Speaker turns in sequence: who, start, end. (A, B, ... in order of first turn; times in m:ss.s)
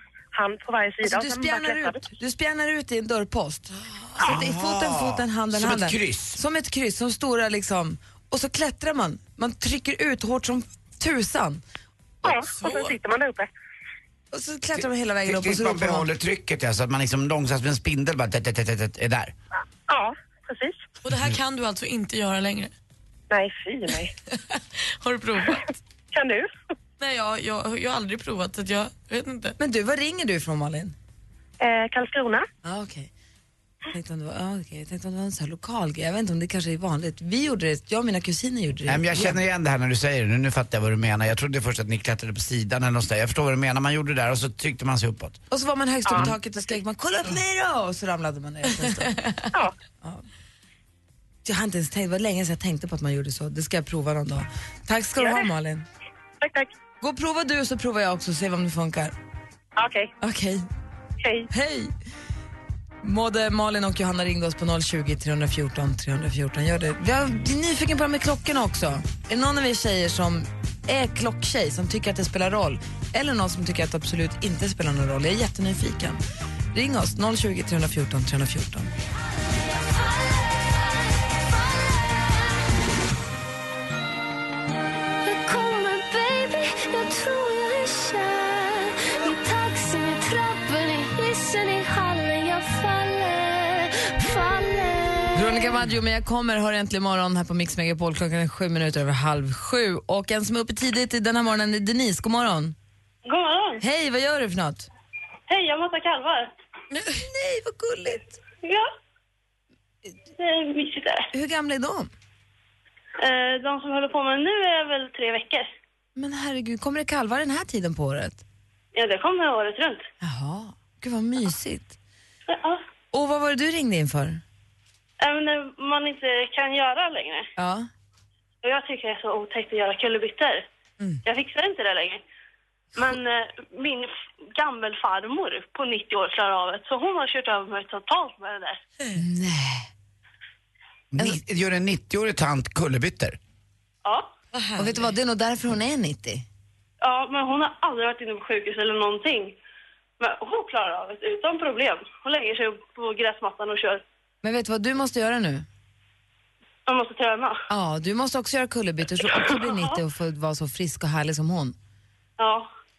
0:00.3-0:02.0 A
0:01.0-0:11.6 B
0:04.2-0:06.4 C
0:12.2-0:13.5 A
0:12.5-0:12.9 D
0:14.3-0:16.1 B
0:14.8-0:19.3 C
0:19.9-0:20.8 A
0:21.0-0:22.7 D
0:23.3-0:24.1 A
0:24.3-0:25.6 D
0:26.1-0:26.5 A
0:27.0-0:29.6 D
0:29.6-0:30.9 B
0:31.6-0:32.4 A
0:32.6-0:33.1 B
0:33.9-0:39.4 B
0:38.9-0:45.4 C
0:45.5-0:49.4 B
0:51.4-0:55.8 B
0:55.2-0:55.5 A
0:56.4-0:56.7 A
0:57.0-0:59.1 B
0:59.8-1:00.1 A
1:00.2-1:00.6 B
1:01.5-1:01.9 B
1:03.0-1:16.2 B
1:16.7-1:18.9 B
1:25.2-1:35.5 E
1:35.3-1:42.7 B
1:43.2-1:43.8 F
1:43.8-1:44.9 B
1:45.5-1:46.5 F
1:46.9-1:48.4 B
1:48.6-1:48.9 F
1:50.4-1:51.3 F
1:51.3-1:52.1 B
1:53.2-1:55.7 F
1:56.2-1:58.4 B
1:58.9-2:00.0 F
2:00.2-2:02.0 B
2:02.5-2:02.8 F
2:03.1-2:04.4 B
2:05.2-2:07.5 F
2:07.6-2:07.9 B
2:08.6-2:10.6 F
2:11.2-2:12.2 F
2:13.0-2:18.8 F
2:19.1-2:19.9 B
2:21.1-2:23.4 C
2:24.0-2:24.3 F
2:24.5-2:25.1 D
2:24.8-2:26.4 B
2:27.0-2:29.5 F
2:30.2-2:34.0 F
2:34.4-2:35.6 B
2:36.9-2:37.6 F
2:37.7-2:41.7 B
2:39.3-2:40.0 F
2:42.4-2:42.7 F